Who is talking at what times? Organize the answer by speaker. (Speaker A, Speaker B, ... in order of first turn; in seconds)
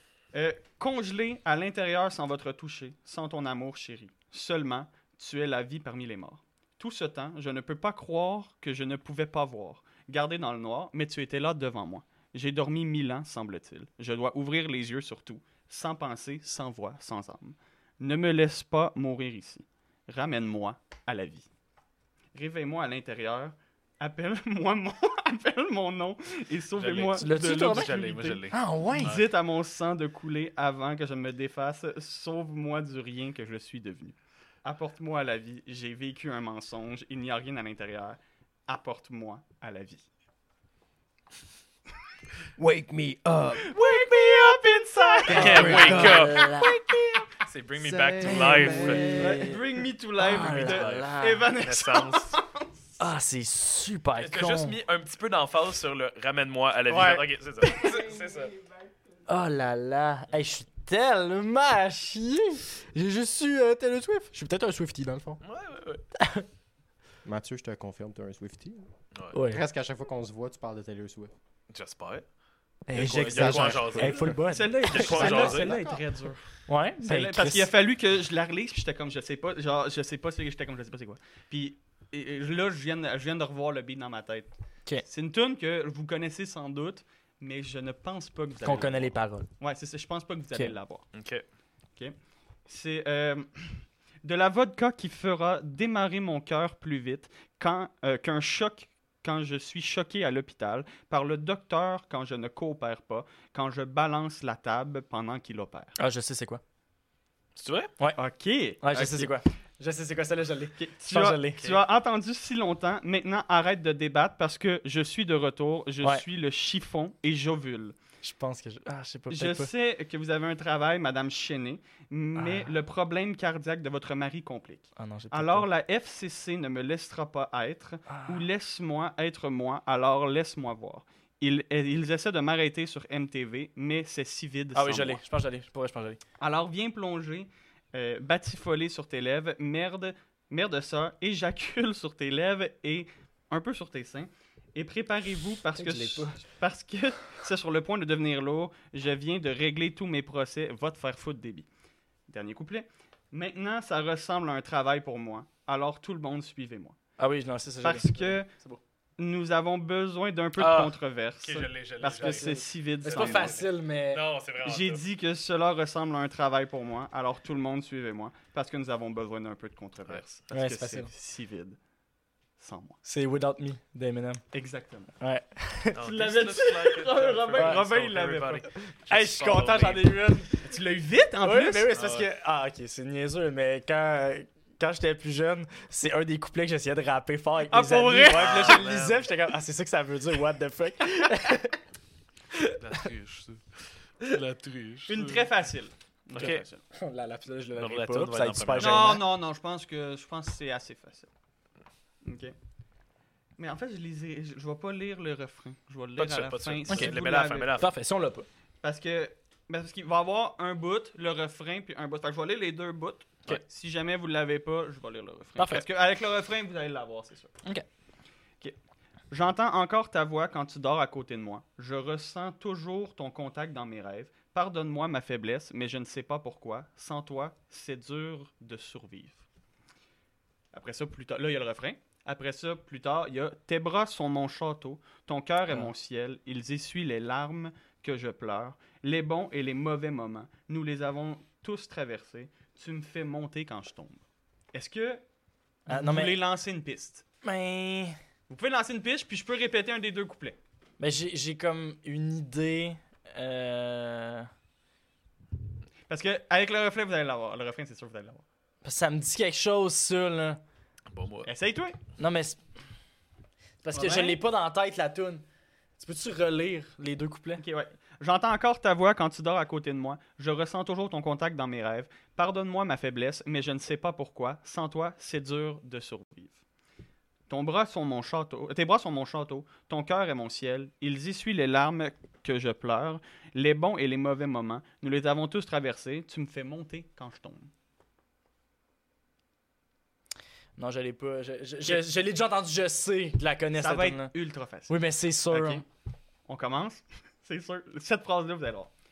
Speaker A: 0.3-21.5, 22.3-28.4, 28.9-40.1, 43.6-47.3, 49.2-52.9, 56.9-57.9, 74.5-76.5, 77.0-84.5, 85.0-91.1, 92.7-106.0, 108.2-109.4, 110.8-118.0, 119.3-135.2, 136.4-151.7, 152.3-157.0, 157.8-158.5, 159.2-163.6, 164.6-171.8, 172.6-173.0, 174.5-175.1, 176.0-178.7, 180.5-181.9, 187.7-188.8, 195.1-196.8, 198.8-201.3, 202.2-202.6, 203.6-207.8, 208.8-217.6, 219.3-229.4, 230.7-244.2, 244.7-245.2, 245.9-247.2, 248.5-250.6, 256.1-258.4, 261.4-262.0, 263.9-264.4, 267.6-276.6, 277.5-287.7, 293.8-294.9, 295.5-295.9, 296.5-298.9
Speaker B: 26.8-29.3, 45.3-46.5, 47.4-49.3, 50.4-52.4, 54.2-58.5, 65.4-66.0, 71.7-72.3, 72.9-75.9, 91.1-91.4, 107.6-107.9, 160.6-165.0, 175.9-180.1, 181.9-182.3, 188.3-189.3, 192.8-195.5, 196.3-196.6, 197.8-199.2, 206.2-207.9, 261.1-261.5
Speaker C: 27.2-29.1, 45.1-46.8, 48.2-49.6, 50.2-51.5, 53.0-54.8, 59.3-65.4, 66.2-66.5, 69.3-69.6, 72.9-75.6, 76.7-77.7, 88.6-89.5, 106.0-106.6, 108.8-111.6, 118.2-119.7, 122.4-122.7, 125.0-125.7, 128.1-128.5, 134.7-136.2, 145.8-146.4, 157.2-158.8, 162.2-164.2, 170.5-171.1, 173.0-174.4, 175.2-176.0, 177.6-177.8, 178.9-180.6, 181.4-191.8, 196.4-199.2, 206.9-207.2, 207.7-208.5, 215.6-215.8, 245.9-246.4, 247.4-248.2, 251.0-254.5, 258.8-260.6, 262.2-262.6, 263.8-265.4, 266.0-267.6, 290.8-294.3, 294.9-295.8
Speaker D: 42.6-44.7, 45.2-47.0, 47.8-49.6, 67.2-71.3, 73.0-76.0